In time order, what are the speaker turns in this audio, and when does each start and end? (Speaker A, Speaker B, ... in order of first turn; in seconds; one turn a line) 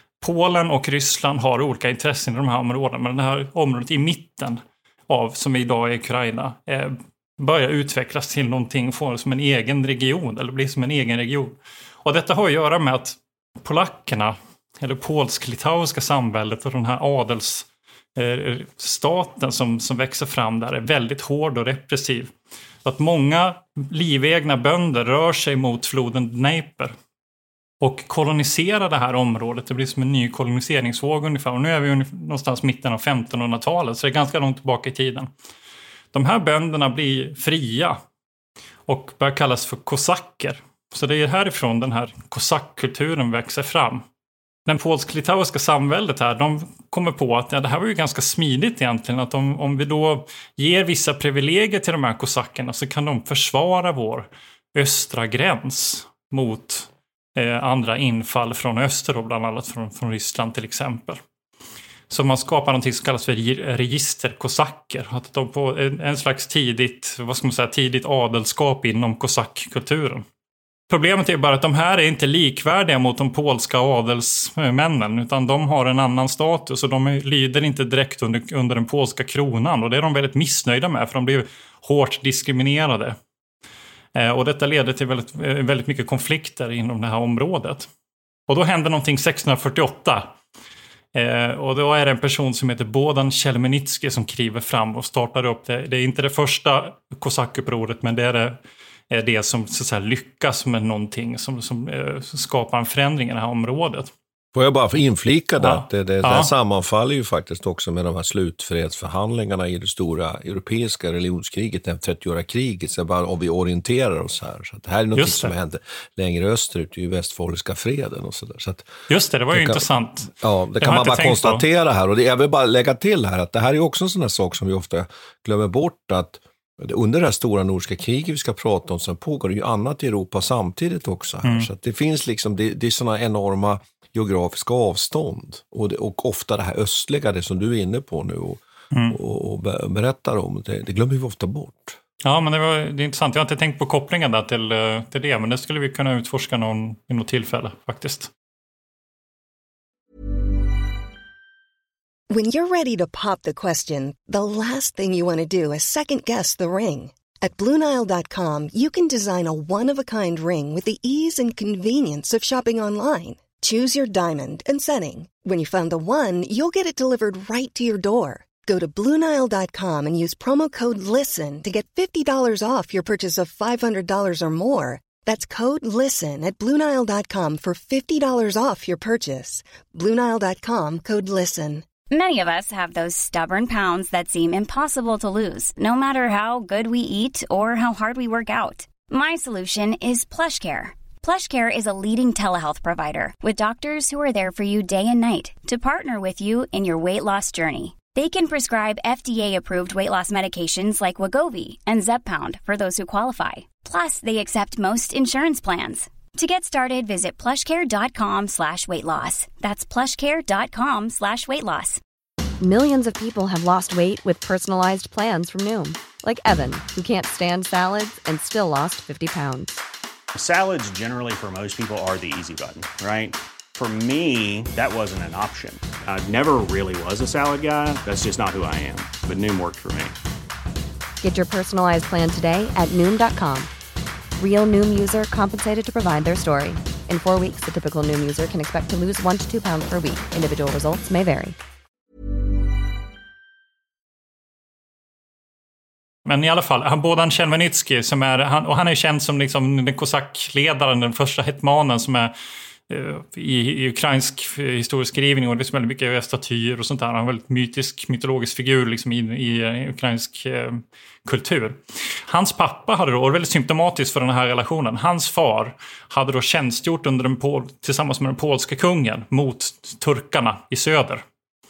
Speaker A: 0.2-22.3
Speaker A: 22.8-26.9
Speaker A: 27.8-35.3
Speaker A: 36.1-38.0
Speaker A: 38.9-44.0
Speaker A: 44.6-61.2
Speaker A: 62.1-70.2
Speaker A: 70.9-83.2
Speaker A: 84.1-87.9
Speaker A: 88.5-90.3
Speaker A: 91.1-98.6
Speaker A: 99.1-104.1
Speaker B: 104.5-118.9
Speaker A: 105.6-106.5
Speaker A: 115.1-115.5
Speaker A: 119.1-121.6
Speaker B: 119.5-119.8
Speaker B: 120.4-142.0
Speaker A: 131.4-131.7
Speaker A: 138.9-139.2
Speaker A: 142.2-148.3
Speaker C: 152.3-181.9
Speaker D: 182.1-212.0
Speaker E: 212.6-219.7
Speaker F: 220.3-230.1
Speaker E: 231.2-233.7
Speaker E: 234.4-241.6
Speaker A: 246.2-252.3
Speaker A: 252.9-271.2